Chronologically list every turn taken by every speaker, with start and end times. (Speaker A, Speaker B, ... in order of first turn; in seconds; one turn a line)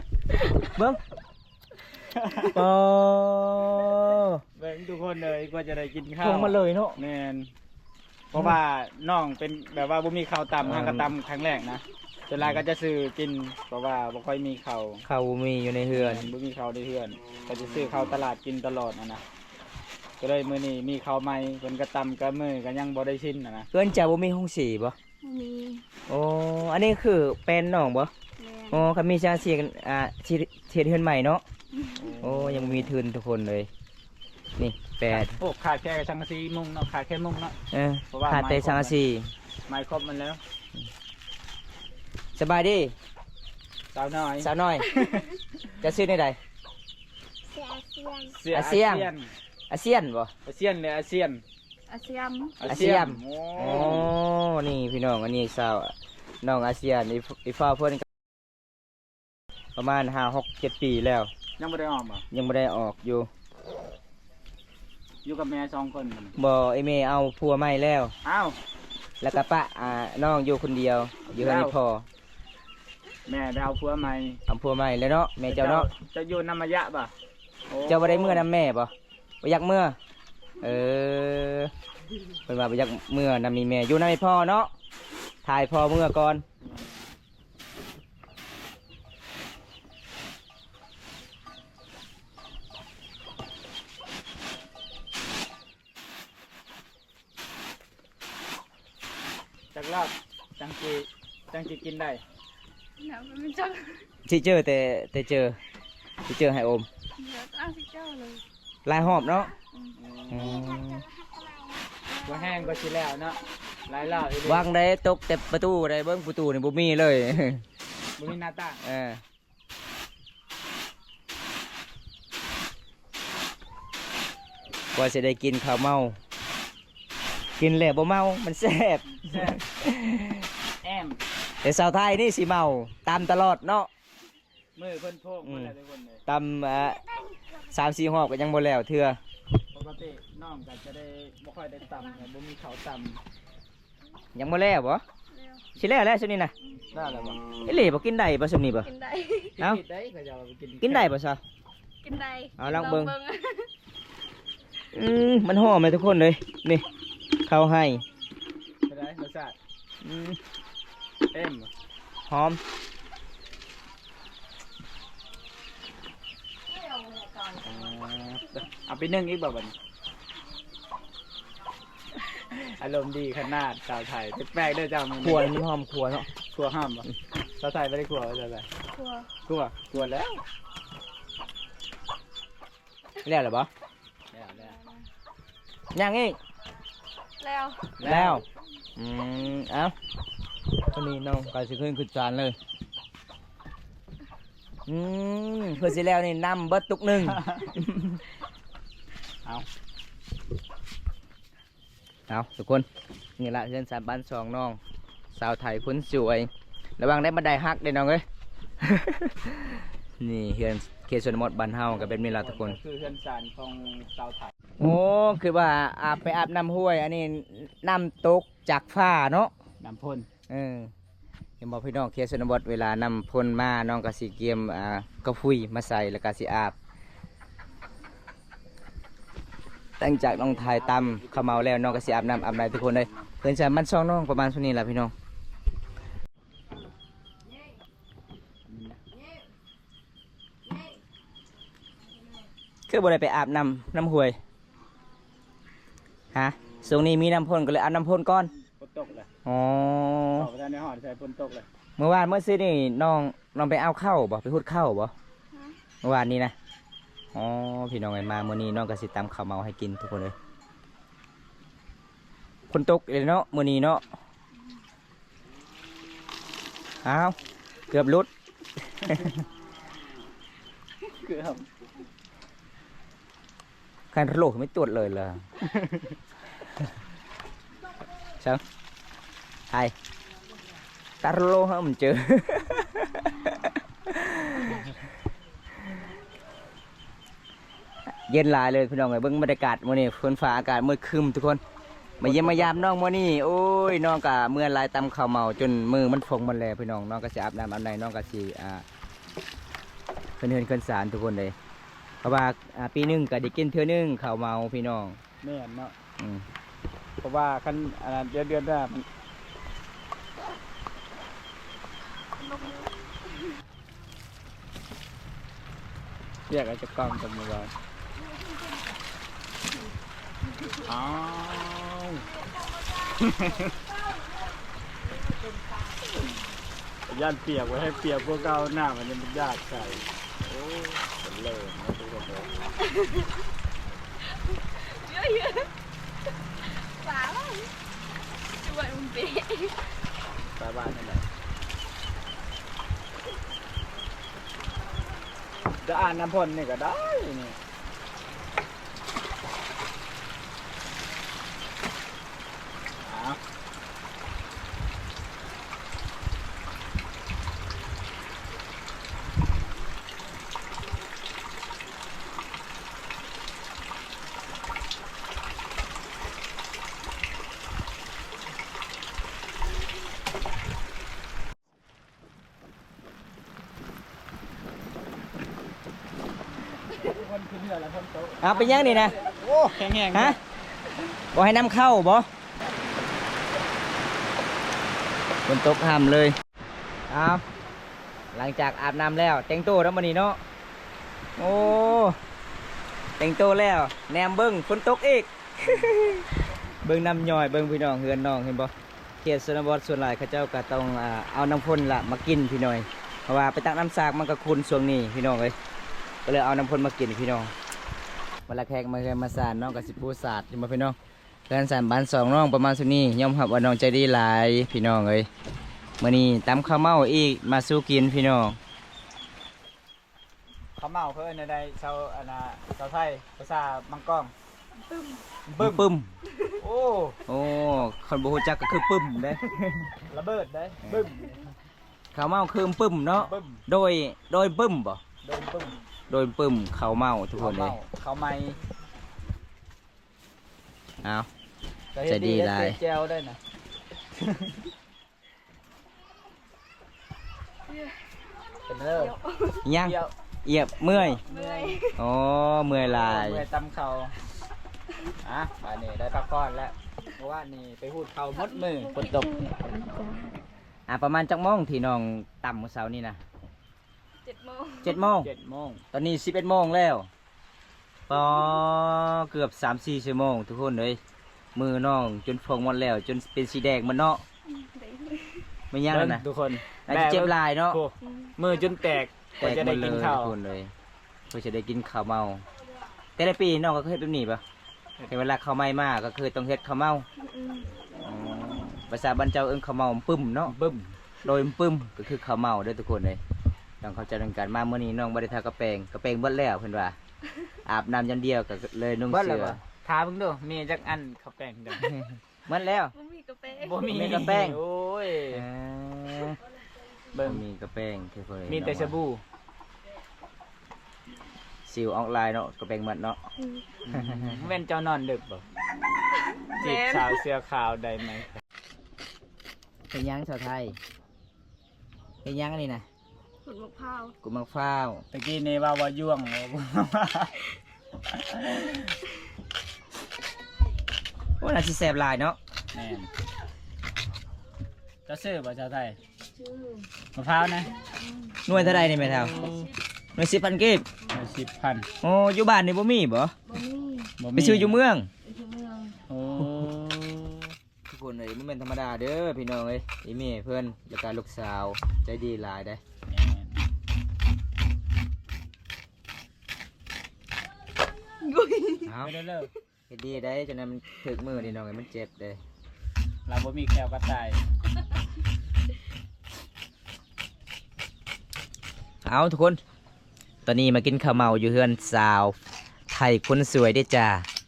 Speaker A: 0.6-1.0
Speaker B: 2.1-2.6
Speaker A: 2.5-4.4
Speaker B: 4.6-7.5
Speaker A: 6.2-7.0
Speaker B: 8.3-15.0
Speaker A: 10.6-11.1
Speaker A: 15.0-16.3
Speaker B: 15.9-19.2
Speaker B: 20.2-23.7
Speaker A: 23.7-24.9
Speaker C: 25.2-25.8
Speaker A: 26.1-28.1
Speaker C: 28.4-28.8
Speaker A: 28.7-31.4
Speaker C: 31.7-32.1
Speaker B: 32.0-32.9
Speaker A: 32.2-33.7
Speaker A: 34.6-35.3
Speaker B: 35.1-37.5
Speaker A: 37.7-39.3
Speaker B: 38.1-39.0
Speaker B: 39.7-40.4
Speaker A: 42.3-42.9
Speaker B: 43.9-45.2
Speaker A: 44.4-44.9
Speaker C: 44.9-45.2
Speaker A: 45.8-46.4
Speaker C: 47.4-48.4
Speaker B: 48.3-49.3
Speaker A: 48.5-49.1
Speaker A: 49.7-50.3
Speaker B: 50.5-51.4
Speaker C: 51.9-52.7
Speaker B: 52.6-54.1
Speaker A: 52.6-58.1
Speaker A: 59.8-61.3
Speaker B: 61.6-62.2
Speaker A: 62.3-63.3
Speaker B: 65.2-66.3
Speaker A: 66.4-68.1
Speaker B: 68.2-68.5
Speaker A: 69.2-72.0
Speaker B: 71.3-71.7
Speaker B: 73.2-74.4
Speaker A: 74.5-75.9
Speaker B: 75.5-77.1
Speaker B: 77.7-78.4
Speaker A: 77.8-80.0
Speaker A: 80.6-81.7
Speaker A: 82.5-84.7
Speaker A: 85.4-86.4
Speaker B: 86.6-87.0
Speaker B: 99.7-102.2
Speaker C: 103.0-104.1
Speaker A: 104.2-105.6
Speaker A: 106.2-106.9
Speaker C: 107.2-108.4
Speaker A: 108.8-109.5
Speaker C: 109.7-113.0
Speaker B: 110.0-110.6
Speaker A: 110.3-111.0
Speaker B: 112.2-114.7
Speaker A: 114.4-117.6
Speaker B: 118.2-118.8
Speaker A: 118.8-119.2
Speaker A: 124.9-126.2
Speaker A: 127.6-130.5
Speaker B: 129.1-129.7
Speaker B: 130.8-131.2
Speaker A: 131.6-133.9
Speaker B: 134.8-136.2
Speaker A: 135.4-135.7
Speaker A: 136.2-137.0
Speaker A: 137.7-139.2
Speaker B: 139.7-143.2
Speaker A: 144.3-145.0
Speaker C: 145.3-145.7
Speaker A: 145.8-146.5
Speaker B: 146.9-147.4
Speaker A: 147.6-148.9
Speaker C: 148.8-149.6
Speaker B: 149.6-151.1
Speaker A: 150.8-151.4
Speaker C: 152.0-153.7
Speaker A: 152.6-153.1
Speaker A: 154.9-156.8
Speaker A: 157.4-158.0
Speaker B: 158.9-159.6
Speaker A: 160.0-160.4
Speaker B: 161.3-161.7
Speaker A: 162.3-162.6
Speaker C: 167.3-167.5
Speaker B: 167.6-169.7
Speaker B: 172.5-175.5
Speaker A: 175.2-176.3
Speaker B: 176.5-178.7
Speaker C: 178.9-179.3
Speaker B: 179.4-180.4
Speaker A: 183.2-183.7
Speaker B: 184.3-184.8
Speaker A: 185.9-186.4
Speaker C: 187.4-187.9
Speaker B: 188.0-188.4
Speaker A: 188.0-188.4
Speaker A: 188.9-189.9
Speaker A: 190.9-192.6
Speaker A: 194.9-198.2
Speaker B: 197.2-197.7
Speaker A: 202.3-202.9
Speaker A: 203.4-204.8
Speaker A: 205.3-208.2
Speaker A: 208.8-212.8
Speaker B: 212.0-214.5
Speaker A: 214.8-219.5
Speaker B: 219.8-220.3
Speaker A: 220.5-220.9
Speaker A: 221.6-226.7
Speaker A: 230.0-235.1
Speaker B: 230.3-233.2
Speaker B: 238.7-239.0
Speaker A: 242.9-244.4
Speaker A: 246.3-248.5
Speaker B: 248.8-249.3
Speaker A: 249.4-250.5
Speaker B: 250.3-251.7
Speaker A: 252.0-255.1
Speaker A: 256.0-256.5
Speaker A: 257.3-260.3
Speaker A: 262.7-264.0
Speaker A: 267.0-267.4
Speaker A: 267.9-268.3
Speaker A: 268.9-269.3
Speaker B: 269.0-269.3
Speaker B: 271.1-271.7
Speaker A: 274.1-275.4
Speaker B: 275.6-276.2
Speaker A: 281.2-284.9
Speaker A: 288.1-291.6
Speaker B: 292.2-292.7
Speaker A: 292.2-298.8
Speaker A: 300.4-301.5
Speaker A: 302.2-305.2
Speaker B: 305.4-305.9
Speaker A: 306.2-306.4
Speaker B: 307.2-309.1
Speaker C: 312.5-312.8
Speaker B: 316.5-317.7
Speaker B: 320.8-322.2
Speaker B: 323.2-323.7
Speaker B: 327.1-332.6
Speaker C: 332.8-333.3
Speaker C: 334.2-335.7
Speaker C: 336.6-337.7
Speaker C: 338.5-339.9
Speaker B: 340.6-341.3
Speaker B: 345.8-347.6
Speaker B: 353.0-353.4
Speaker B: 377.0-380.4
Speaker A: 378.4-379.1
Speaker A: 380.1-380.4
Speaker A: 381.3-382.3
Speaker A: 385.4-386.4
Speaker A: 387.1-387.4
Speaker A: 388.3-390.4
Speaker A: 391.4-392.2
Speaker A: 393.2-396.3
Speaker A: 396.8-405.6
Speaker A: 406.2-407.5
Speaker A: 408.5-411.0
Speaker A: 411.5-415.3
Speaker A: 416.0-418.6
Speaker B: 420.8-424.3
Speaker C: 424.9-425.2
Speaker B: 425.4-425.9
Speaker A: 425.6-426.1
Speaker B: 426.6-427.2
Speaker A: 427.3-429.9
Speaker B: 429.9-431.5
Speaker A: 430.8-431.1
Speaker A: 432.1-435.0
Speaker B: 433.2-433.6
Speaker B: 435.2-435.8
Speaker A: 436.1-437.8
Speaker B: 437.4-438.6
Speaker A: 441.0-441.3
Speaker B: 441.9-443.4
Speaker A: 442.0-442.8
Speaker B: 444.2-444.6
Speaker C: 447.7-448.1
Speaker B: 448.7-449.1
Speaker C: 448.9-449.7
Speaker A: 449.6-451.2
Speaker B: 449.8-450.1
Speaker B: 450.9-451.8
Speaker C: 451.3-452.0
Speaker A: 452.0-453.4
Speaker B: 452.7-454.1
Speaker B: 455.2-459.3
Speaker C: 458.3-460.4
Speaker A: 460.9-463.2
Speaker C: 464.2-465.0
Speaker A: 464.8-465.3
Speaker B: 465.2-465.8
Speaker A: 465.9-467.1
Speaker A: 468.1-471.0
Speaker A: 471.5-474.2
Speaker C: 474.4-475.5
Speaker A: 475.7-476.2
Speaker B: 475.9-480.3
Speaker A: 476.9-477.8
Speaker C: 478.0-478.3
Speaker A: 479.4-480.7
Speaker A: 481.3-482.4
Speaker A: 483.1-484.4
Speaker A: 485.1-487.1
Speaker C: 487.2-487.7
Speaker B: 488.1-488.7
Speaker A: 488.4-490.5
Speaker B: 490.5-490.9
Speaker A: 491.2-493.2
Speaker A: 493.8-497.0
Speaker A: 497.6-499.6
Speaker B: 499.1-501.9
Speaker A: 501.8-502.9
Speaker C: 502.9-503.9
Speaker B: 503.6-505.4
Speaker A: 503.9-504.6
Speaker A: 505.3-506.4
Speaker B: 507.1-507.4
Speaker A: 507.2-508.9
Speaker B: 508.5-509.2
Speaker A: 511.6-513.2
Speaker C: 513.4-513.6
Speaker B: 513.9-515.4
Speaker A: 513.9-514.4
Speaker C: 516.5-517.2
Speaker B: 516.5-518.3
Speaker A: 519.9-520.8
Speaker A: 522.2-522.9
Speaker C: 523.4-524.1
Speaker A: 524.2-525.0
Speaker B: 525.1-527.3
Speaker B: 528.1-529.0
Speaker A: 531.4-532.4
Speaker B: 532.7-533.1
Speaker B: 535.0-536.0
Speaker C: 536.4-536.9
Speaker B: 537.1-537.7
Speaker C: 537.8-538.4
Speaker A: 538.5-539.3
Speaker B: 538.5-539.7
Speaker C: 539.1-539.7
Speaker A: 540.1-540.9
Speaker B: 541.1-541.9
Speaker A: 542.0-543.3
Speaker C: 543.5-544.1
Speaker B: 544.2-544.8
Speaker A: 544.3-545.1
Speaker C: 545.2-546.0
Speaker B: 546.1-547.5
Speaker A: 547.9-552.8
Speaker B: 553.1-553.5
Speaker C: 558.2-558.9
Speaker A: 558.8-559.1
Speaker B: 559.0-559.5
Speaker A: 559.9-562.4
Speaker B: 563.3-564.4
Speaker A: 569.0-569.6
Speaker A: 570.4-572.4
Speaker A: 572.9-574.3